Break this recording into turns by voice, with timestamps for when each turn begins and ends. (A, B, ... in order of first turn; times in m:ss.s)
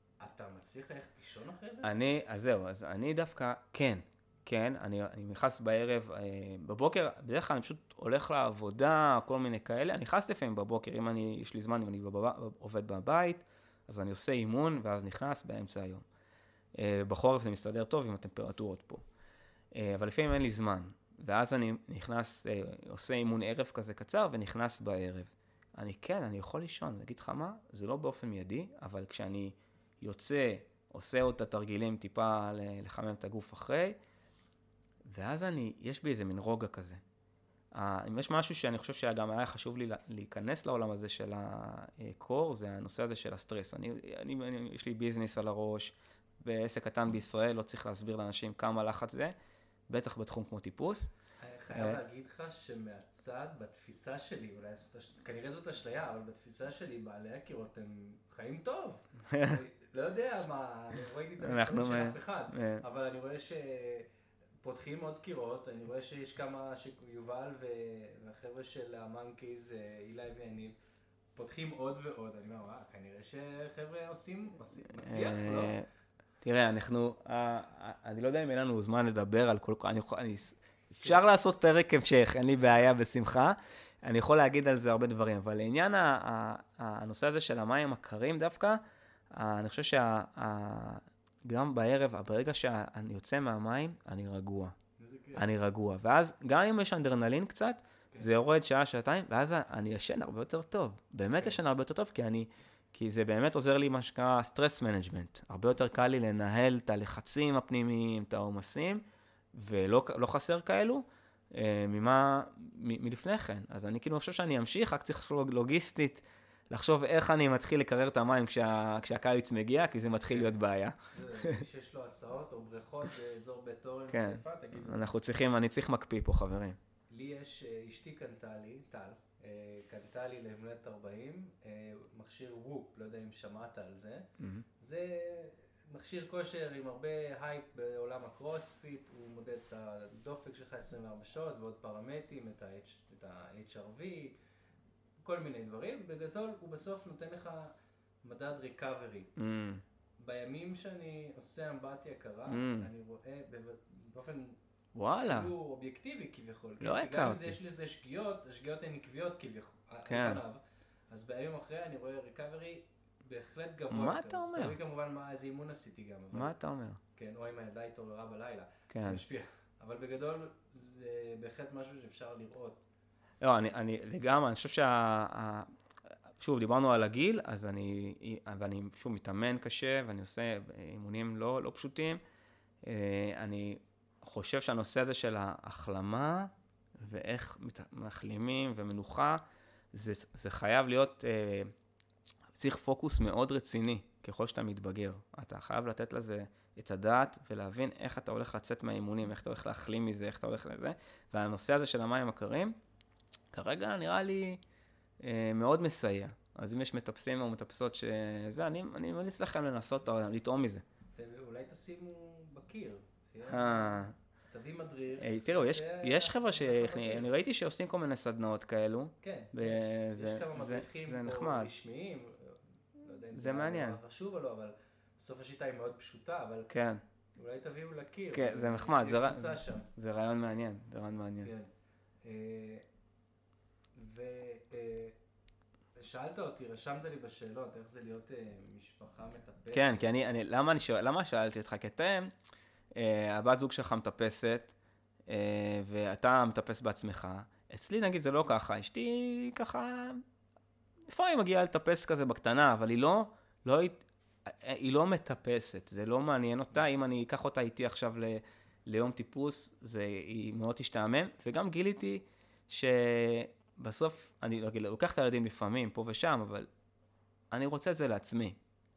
0:00.2-0:02.0 A
0:01.8-0:16.0 B
0:16.8-0:19.0 B
0:19.7-0:34.0 B
0:35.1-0:37.0 B
0:37.7-0:49.3 B
0:49.9-0:51.1 B
0:51.4-1:04.1 A
0:51.7-0:52.0 B
0:59.3-0:59.6 B
1:01.4-1:02.8 B
1:04.6-1:10.8 A
1:11.4-1:15.8 A
1:14.9-1:15.8 B
1:16.4-1:28.8 B
1:29.3-1:34.8 B
1:35.0-1:35.5 A
1:35.4-2:01.6 B
2:00.3-2:00.5 A
2:01.1-2:05.1 A
2:04.1-2:06.8 B
2:07.1-2:14.3 A
2:14.4-2:14.6 B
2:14.8-2:24.4 A
2:25.2-2:27.7 A
2:28.2-2:29.3 A
2:29.4-2:29.8 B
2:30.2-2:34.6 A
2:32.5-2:32.9 B
2:35.0-2:35.5 B
2:35.2-2:46.6 A
2:36.8-2:37.6 B
2:40.1-2:40.4 B
2:43.9-2:44.8 B
2:46.3-2:47.0 B
2:47.1-2:52.8 A
2:48.9-2:49.2 B
2:53.4-2:55.7 B
2:56.4-3:02.2 B
3:02.8-3:11.7 B
3:12.6-3:22.8 B
3:23.5-3:24.6 B
3:25.2-3:30.8 B
3:31.2-3:37.3 A
3:33.5-3:34.1 B
3:35.2-3:41.7 B
3:39.2-3:46.7 A
3:43.3-3:44.0 B
3:46.7-3:47.0 B
3:47.4-3:49.9 A
3:48.3-3:51.5 B
3:51.4-3:51.7 A
3:52.2-3:52.9 A
3:54.0-3:55.2 A
3:56.0-4:00.1 A
3:59.7-4:02.3 B
4:03.0-4:04.7 B
4:05.3-4:10.2 B
4:11.1-4:26.7 B
4:27.5-4:28.6 B